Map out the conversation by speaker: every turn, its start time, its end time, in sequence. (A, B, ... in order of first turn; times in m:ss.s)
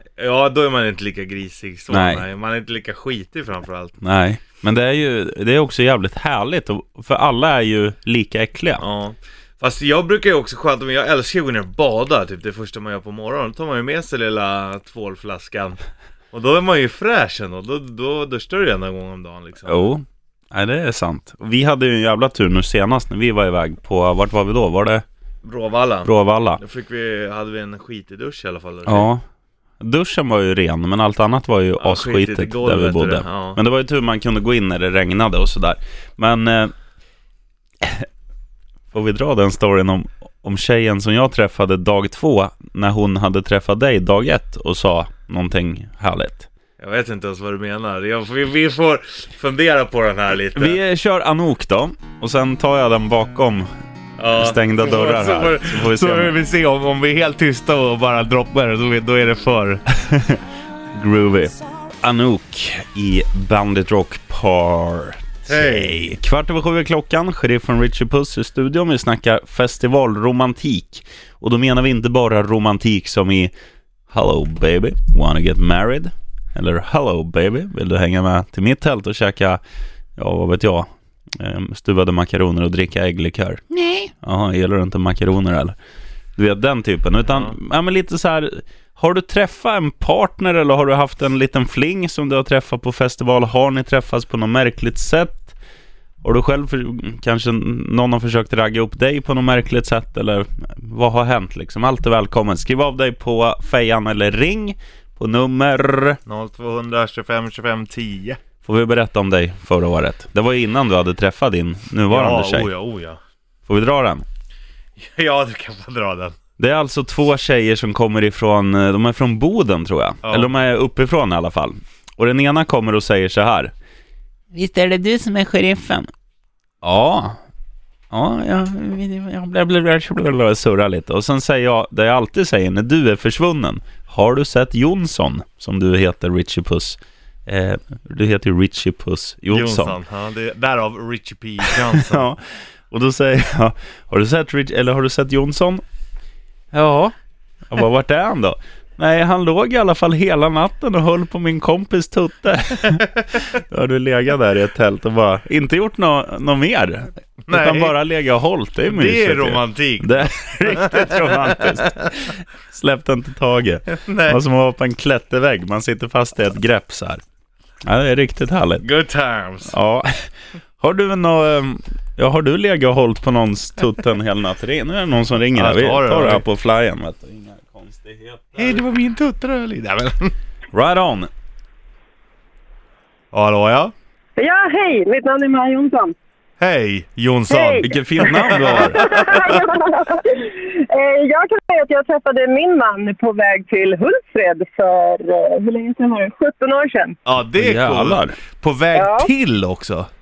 0:00.2-0:04.0 A
0:01.9-0:02.2 B
0:04.0-0:08.8 B
0:08.8-0:15.8 A
0:16.3-0:19.9 A
0:19.7-0:25.0 B
0:25.4-0:29.1 A
0:26.0-0:26.6 B
0:28.9-0:29.2 B
0:29.8-0:36.7 B
0:31.8-0:33.6 A
0:38.9-0:46.5 B
0:46.8-0:50.8 A
0:50.6-0:53.7 B
0:54.2-0:59.8 A
0:54.4-0:56.4 B
1:00.9-1:13.5 B
1:05.5-1:06.2 A
1:14.1-1:19.6 B
1:20.2-1:25.8 B
1:26.4-1:35.5 B
1:27.3-1:27.5 A
1:36.2-1:46.2 B
1:46.3-1:48.4 A
1:48.6-1:52.7 B
1:52.1-1:53.2 A
1:53.7-1:54.2 B
1:55.0-1:56.4 A
1:56.6-2:03.7 B
2:00.2-2:00.5 A
2:04.5-2:06.1 B
2:06.8-2:07.4 B
2:08.1-2:20.0 B
2:19.5-2:22.2 A
2:22.0-2:25.8 B
2:26.7-2:27.1 B
2:27.7-2:47.2 B
2:37.5-2:38.0 A
2:38.9-2:41.7 A
2:43.9-2:44.4 A
2:47.8-2:48.9 B
2:48.8-2:49.7 A
2:49.7-2:58.8 B
2:55.6-2:56.4 A
2:58.6-3:00.3 A
3:00.7-3:01.3 B
3:03.3-3:03.9 A
3:04.4-3:06.2 C
3:06.6-3:09.7 A
3:07.5-3:07.9 C
3:07.8-3:09.1 B
3:08.5-3:17.2 C
3:17.3-3:20.1 A
3:17.6-3:18.4 B
3:18.9-3:19.3 C